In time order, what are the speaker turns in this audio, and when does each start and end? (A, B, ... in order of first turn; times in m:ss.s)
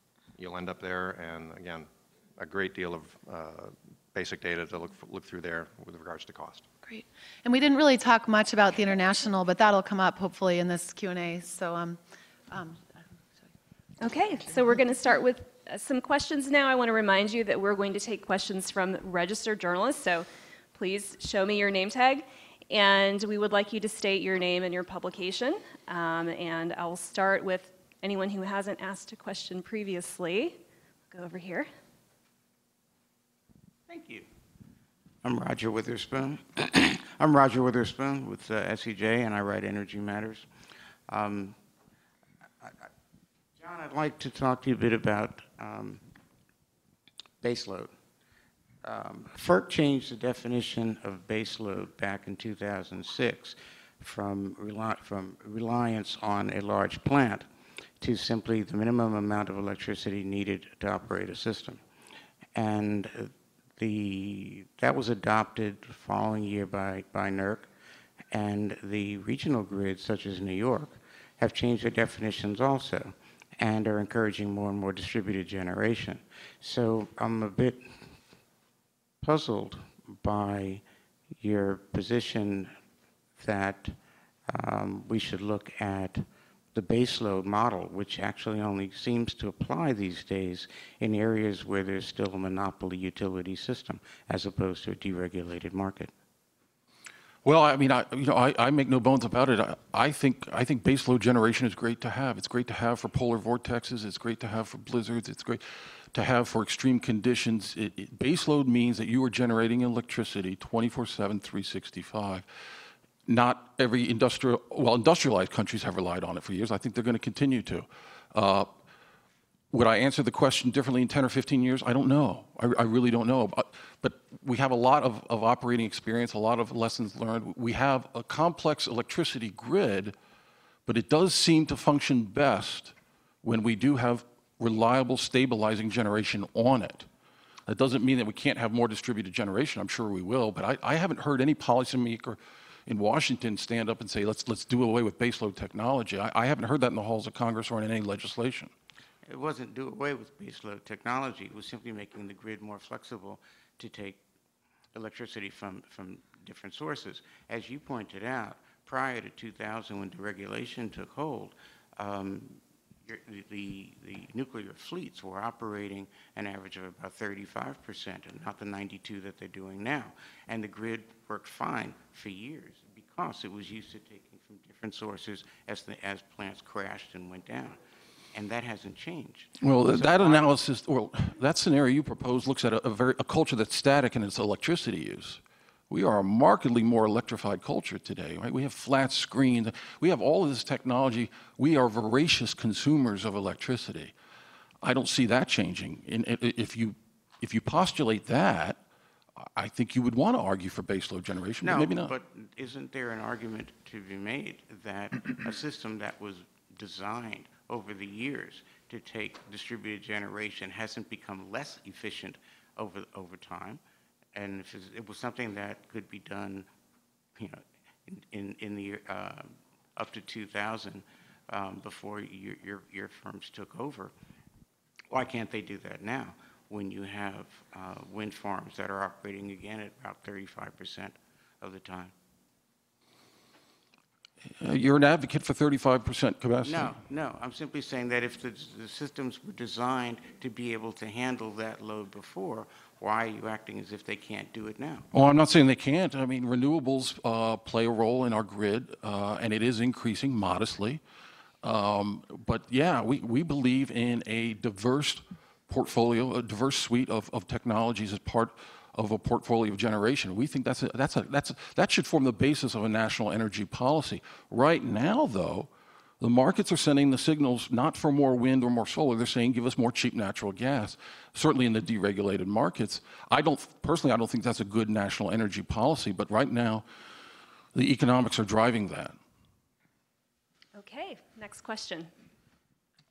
0:00.4-0:06.6 A
0:06.8-0:12.9 B
0:14.0-0:31.7 C
0:33.9-0:34.3 D
0:35.2-0:40.5 D
0:41.1-0:41.6 D
0:42.6-0:42.9 D
0:43.6-0:46.0 D
0:47.4-0:47.9 D
0:48.8-0:57.5 D
0:58.0-1:01.8 D
1:02.5-1:07.7 D
1:08.3-1:18.2 D
1:19.2-1:22.8 D
1:23.4-1:36.1 D
1:37.4-1:52.4 E
1:53.2-1:58.7 E
1:59.7-2:10.1 E
2:10.8-2:17.1 E
2:17.7-2:28.7 E
2:29.2-2:34.2 D
2:34.9-2:57.8 D
2:58.3-3:00.5 D
2:59.6-3:14.1 E
3:14.8-3:18.8 E
3:19.4-3:22.1 E
3:21.6-3:33.8 D
3:34.3-3:36.7 D
3:37.4-3:44.1 D
3:45.1-3:52.1 D
3:54.6-3:57.0 E
3:56.6-4:05.0 D
4:05.1-4:11.0 E
4:11.6-4:25.7 E
4:26.2-4:36.8 E
4:37.7-4:39.2 E
4:40.7-4:42.1 C